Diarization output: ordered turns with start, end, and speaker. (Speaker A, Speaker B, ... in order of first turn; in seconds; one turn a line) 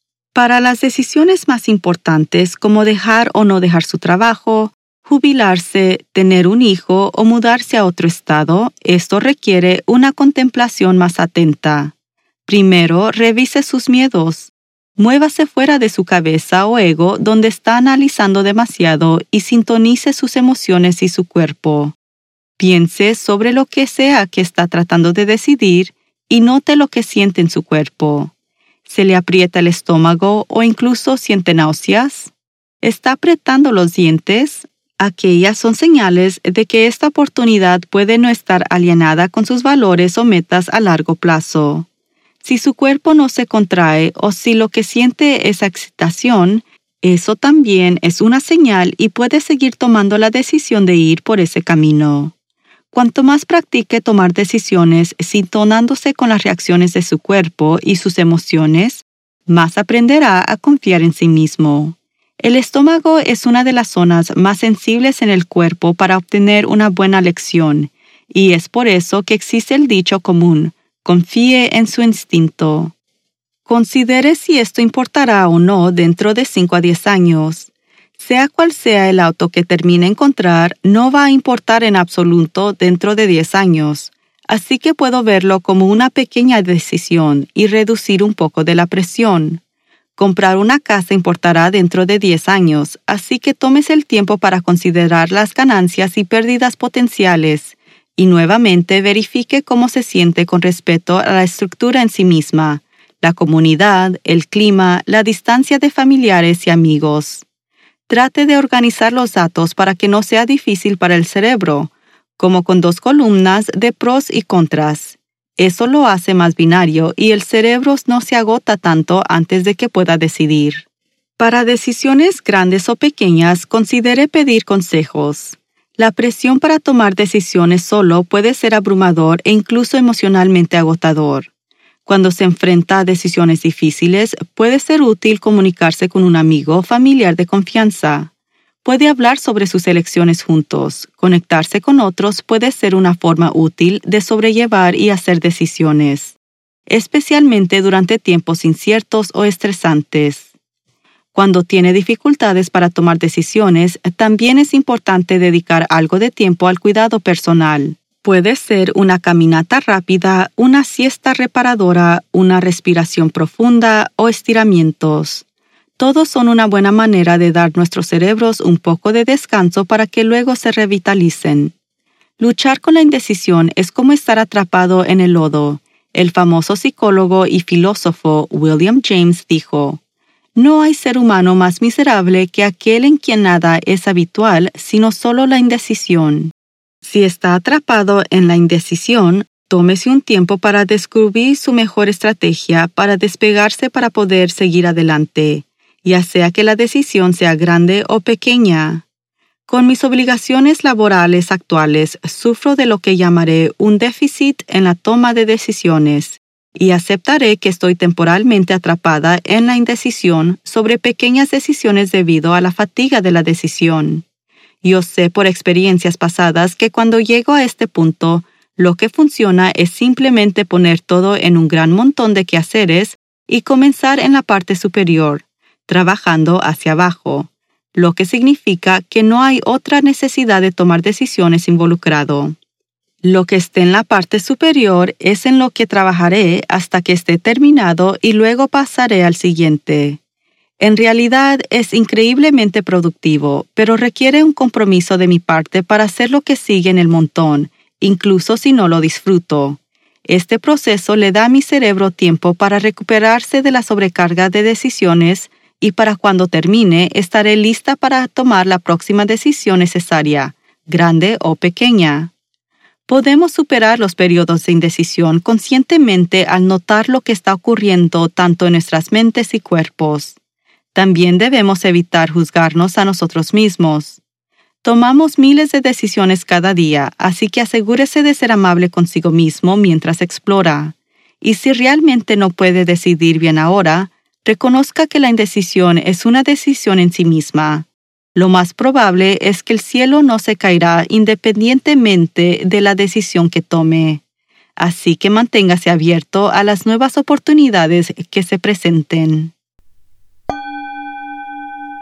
Speaker A: 0.3-11.9
Speaker A: 12.5-21.9
Speaker A: 22.6-28.3
Speaker A: 28.9-41.9
Speaker A: 42.4-52.3
Speaker A: 52.9-72.9
Speaker A: 73.7-89.6
Speaker A: 90.2-107.5
Speaker A: 108.1-120.8
Speaker A: 121.4-131.5
Speaker A: 132.1-138.3
Speaker A: 138.8-146.4
Speaker A: 146.9-150.5
Speaker A: 151.3-165.4
Speaker A: 166.0-171.7
Speaker A: 172.4-180.0
Speaker A: 180.6-199.1
Speaker A: 199.7-214.2
Speaker A: 214.8-232.6
Speaker A: 233.2-240.2
Speaker A: 240.8-262.3
Speaker A: 263.1-270.4
Speaker A: 270.9-274.2
Speaker A: 274.8-294.2
Speaker A: 294.8-299.5